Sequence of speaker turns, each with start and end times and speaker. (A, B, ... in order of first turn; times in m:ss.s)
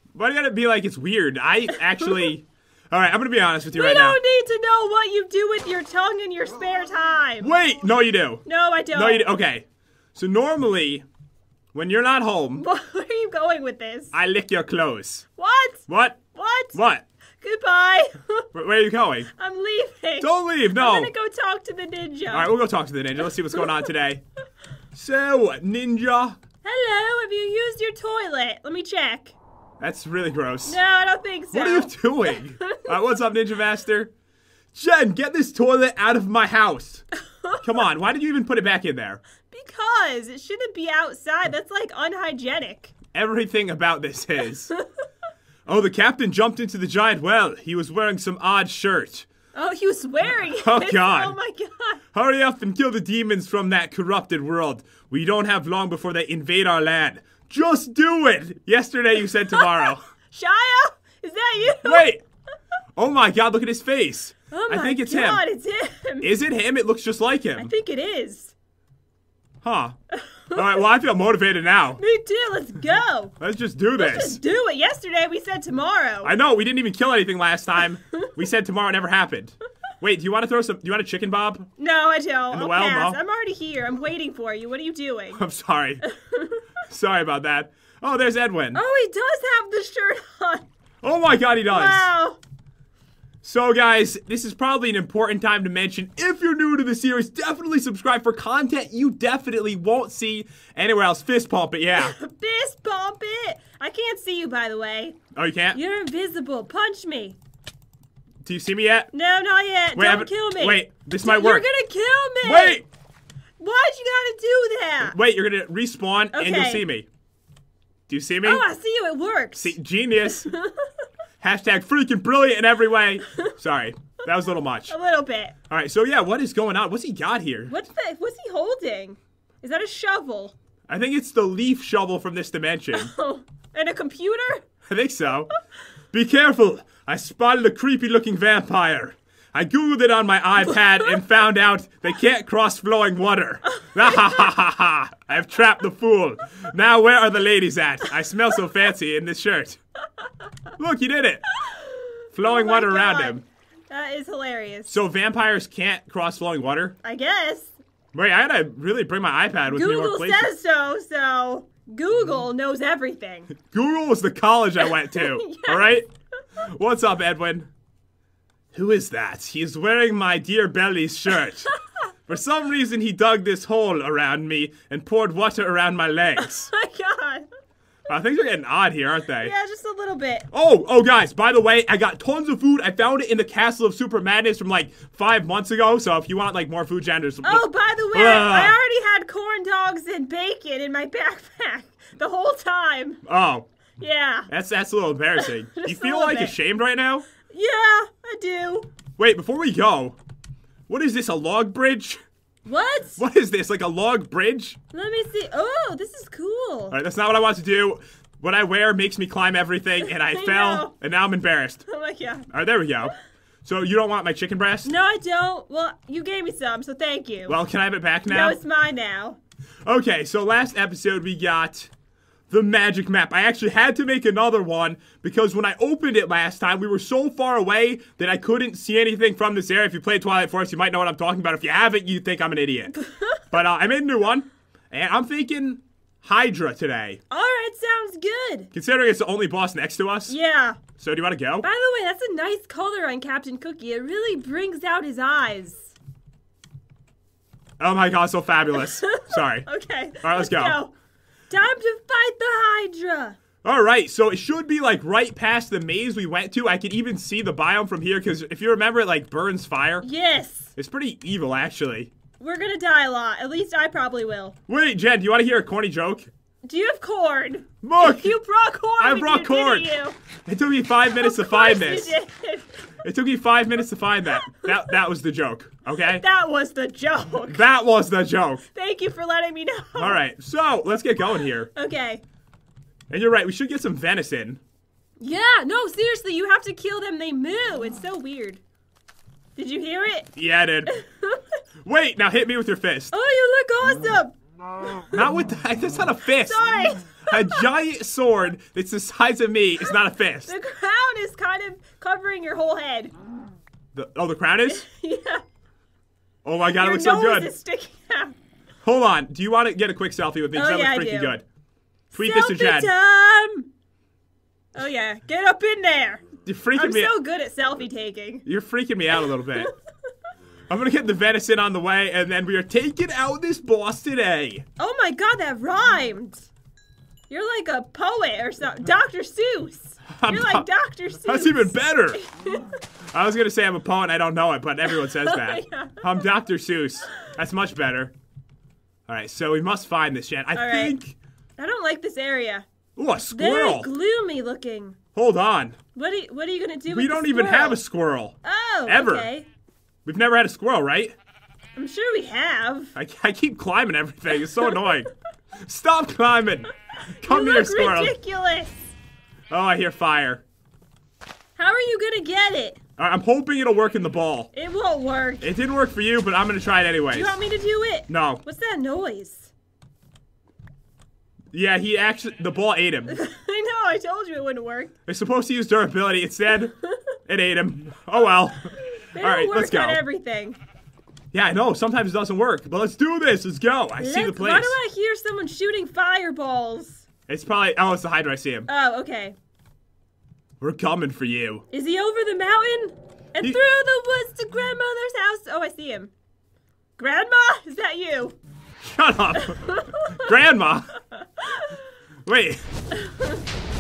0:00.1-0:04.2 A
0:01.7-0:02.3 B
0:03.7-0:07.5 B
0:07.4-0:11.0 A
0:08.4-0:09.3 B
0:11.7-0:12.7 A
0:12.6-0:14.1 B
0:14.1-0:15.3 A
0:15.4-0:16.8 B
0:15.9-0:16.2 A
0:16.7-0:17.0 A
0:17.4-0:18.5 B
0:18.5-0:19.3 A
0:19.4-0:22.5 B
0:20.2-0:21.1 A
0:22.3-0:24.2 A
0:24.9-0:26.4 A
0:26.6-0:29.4 B
0:29.8-0:30.8 A
0:30.7-0:33.0 B
0:31.5-0:34.1 A
0:34.7-0:37.0 A
0:37.6-0:39.2 A
0:39.4-0:42.9 B
0:43.1-0:44.7 A
0:45.7-0:49.3 A
0:49.5-0:52.0 B
0:50.5-0:51.4 A
0:52.1-1:00.0 A
0:59.5-1:02.1 B
1:01.8-1:02.2 A
1:03.0-1:05.4 A
1:04.5-1:06.3 B
1:06.2-1:07.7 A
1:07.6-1:08.5 B
1:09.6-1:10.0 A
1:10.1-1:10.8 B
1:10.5-1:12.0 A
1:12.0-1:13.4 B
1:13.4-1:14.4 A
1:14.0-1:16.3 B
1:16.2-1:21.7 A
1:21.8-1:25.4 B
1:22.5-1:23.2 A
1:25.4-1:26.0 A
1:26.0-1:26.6 B
1:26.9-1:28.8 A
1:28.7-1:30.7 B
1:31.0-1:32.1 A
1:31.7-1:32.4 B
1:33.4-1:42.2 A
1:41.9-1:45.2 B
1:45.4-1:45.8 A
1:45.7-1:47.4 B
1:48.4-1:49.1 A
1:49.1-1:52.8 B
1:50.0-1:51.7 A
1:52.4-1:52.8 A
1:53.6-1:55.2 B
1:55.0-1:57.1 A
1:56.3-1:56.8 B
1:58.1-1:58.6 A
1:58.4-2:01.0 B
1:59.6-2:00.5 A
2:01.4-2:04.9 A
2:04.9-2:05.6 B
2:05.7-2:07.8 A
2:07.7-2:10.6 B
2:10.9-2:13.1 A
2:12.9-2:14.6 B
2:14.9-2:15.5 A
2:16.1-2:29.8 A
2:20.6-2:21.2 B
2:23.9-2:24.5 B
2:30.8-2:31.4 A
2:31.6-2:35.0 B
2:32.3-2:33.4 A
2:34.9-2:37.0 A
2:37.0-2:37.7 B
2:38.1-2:40.5 A
2:39.7-2:43.5 B
2:43.6-2:46.1 A
2:44.8-2:46.0 B
2:46.6-2:47.7 A
2:48.7-2:51.7 A
2:52.3-2:56.7 A
2:56.4-2:57.5 B
2:58.1-2:59.5 A
2:59.4-3:00.5 B
3:00.5-3:08.8 A
3:07.4-3:13.2 B
3:13.2-3:13.7 A
3:14.0-3:14.5 B
3:14.5-3:17.3 A
3:15.4-3:16.6 B
3:17.4-3:18.9 B
3:19.2-3:20.2 A
3:20.9-3:22.2 A
3:22.7-3:23.2 B
3:23.2-3:24.8 A
3:24.9-3:27.0 B
3:26.9-3:31.8 A
3:30.0-3:30.9 B
3:31.9-3:32.5 B
3:32.5-3:34.9 A
3:34.8-3:37.6 B
3:37.5-3:38.6 A
3:38.3-3:39.4 B
3:39.8-3:41.9 A
3:42.5-3:53.0 A
3:53.0-3:53.4 B
3:53.5-3:57.2 A
3:57.3-3:58.7 B
3:58.7-4:00.4 A
4:00.3-4:00.8 B
4:01.0-4:01.7 A
4:01.6-4:05.9 B
4:07.8-4:09.7 A
4:08.8-4:10.9 B
4:10.2-4:10.8 A
4:11.5-4:13.4 B
4:13.6-4:20.1 A
4:20.0-4:20.7 B
4:20.8-4:22.1 A
4:22.4-4:24.6 B
4:24.7-4:26.3 A
4:26.6-4:30.2 B
4:27.8-4:28.3 A
4:29.0-4:29.9 A
4:30.5-4:32.2 A
4:31.1-4:32.7 B
4:33.0-4:36.2 A
4:34.3-4:34.9 B
4:36.0-4:37.6 B
4:37.5-4:38.6 A
4:38.7-4:40.2 B
4:40.0-4:41.7 A
4:41.8-4:42.2 B
4:43.1-4:44.6 A
4:45.2-4:48.6 B
4:49.6-4:50.3 B
4:50.4-4:50.9 A
4:50.9-4:51.6 B
4:51.8-4:53.1 A
4:53.1-4:55.3 B
4:55.1-4:56.6 A
4:56.4-4:57.7 B
4:57.3-5:00.5 A
5:00.5-5:03.1 B
5:03.9-5:04.8 A
5:04.7-5:05.4 B
5:06.4-5:07.5 A
5:06.7-5:08.3 B
5:08.8-5:11.4 A
5:10.5-5:11.4 B
5:12.1-5:13.7 B
5:12.1-5:12.9 A
5:14.8-5:18.4 B
5:16.4-5:17.1 A
5:18.4-5:19.7 A
5:19.4-5:19.7 B
5:20.7-5:24.6 A
5:24.8-5:26.5 B
5:27.3-5:32.8 B
5:30.1-5:30.6 A
5:31.2-5:32.2 A
5:33.1-5:38.1 A
5:34.8-5:36.3 B
5:39.1-5:41.2 A
5:40.5-5:41.0 B
5:41.6-5:42.7 B
5:43.0-5:43.9 A
5:43.3-5:45.0 B
5:45.1-5:45.8 A
5:45.9-5:47.8 B
5:46.9-5:48.4 A
5:48.4-5:49.5 B
5:48.9-5:49.3 A
5:50.1-5:51.2 A
5:51.8-5:52.9 B
5:53.0-5:55.1 A
5:54.6-5:54.9 B
5:55.6-5:58.1 A
5:57.2-5:58.9 B
5:59.5-6:00.4 A
6:01.6-6:02.8 B
6:03.0-6:04.5 A
6:04.5-6:05.5 B
6:05.4-6:07.4 A
6:07.1-6:09.5 B
6:08.1-6:08.4 A
6:11.5-6:13.2 A
6:13.1-6:14.9 B
6:15.1-6:16.8 A
6:17.3-6:20.0 A
6:19.1-6:20.6 B
6:21.3-6:24.8 A
6:24.0-6:27.0 B
6:27.3-6:28.7 A
6:28.7-6:29.4 B
6:30.6-6:31.6 A
6:31.7-6:36.1 B
6:37.0-6:38.4 B
6:38.8-6:40.9 A
6:39.3-6:40.3 B
6:41.1-6:41.8 B
6:42.3-6:42.6 A
6:42.9-6:43.4 B